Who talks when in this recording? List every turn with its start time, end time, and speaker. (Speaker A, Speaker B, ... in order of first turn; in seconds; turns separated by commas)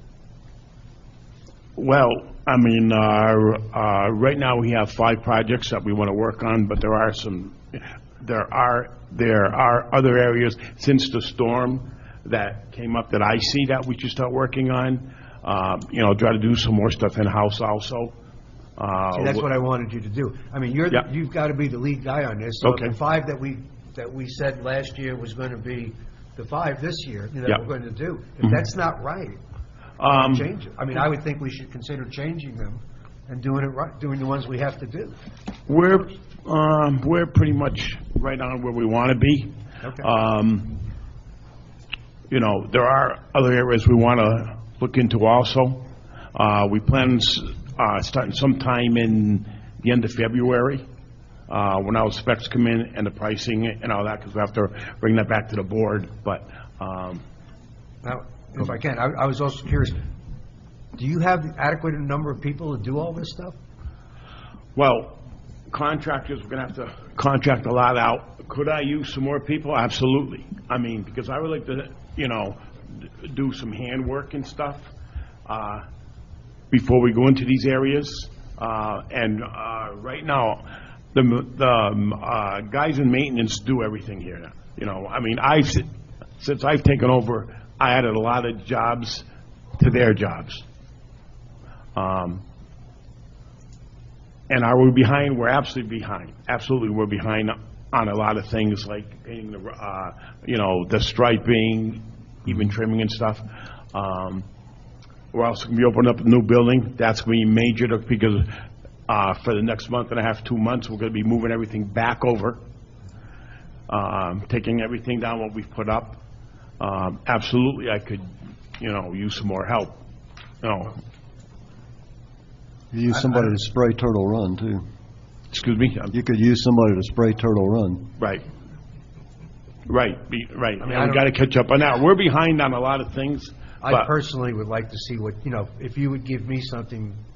Speaker A: 1.8-18.1, Speaker A: 18.8-19.5, Speaker B: 19.1-29.4, Speaker A: 22.6-22.9, Speaker A: 30.0-30.5, Speaker B: 30.0-35.1, Speaker A: 35.7-40.8, Speaker B: 39.8-40.1, Speaker A: 42.3-50.8, Speaker A: 51.5-57.2, Speaker B: 58.0-60.0, Speaker B: 61.0-63.6, Speaker A: 64.8-74.9, Speaker A: 75.5-75.8, Speaker A: 76.7-85.9, Speaker A: 86.4-90.6, Speaker A: 91.9-92.4, Speaker A: 94.5-104.5, Speaker A: 105.3-108.5, Speaker A: 109.1-112.6, Speaker A: 113.9-116.2, Speaker A: 116.8-120.0, Speaker A: 120.6-121.0, Speaker C: 122.9-124.8, Speaker B: 123.1-123.5, Speaker A: 125.5-126.1, Speaker C: 126.1-128.0, Speaker A: 128.2-128.4, Speaker A: 129.8-134.1, Speaker B: 130.8-131.3, Speaker B: 133.8-137.2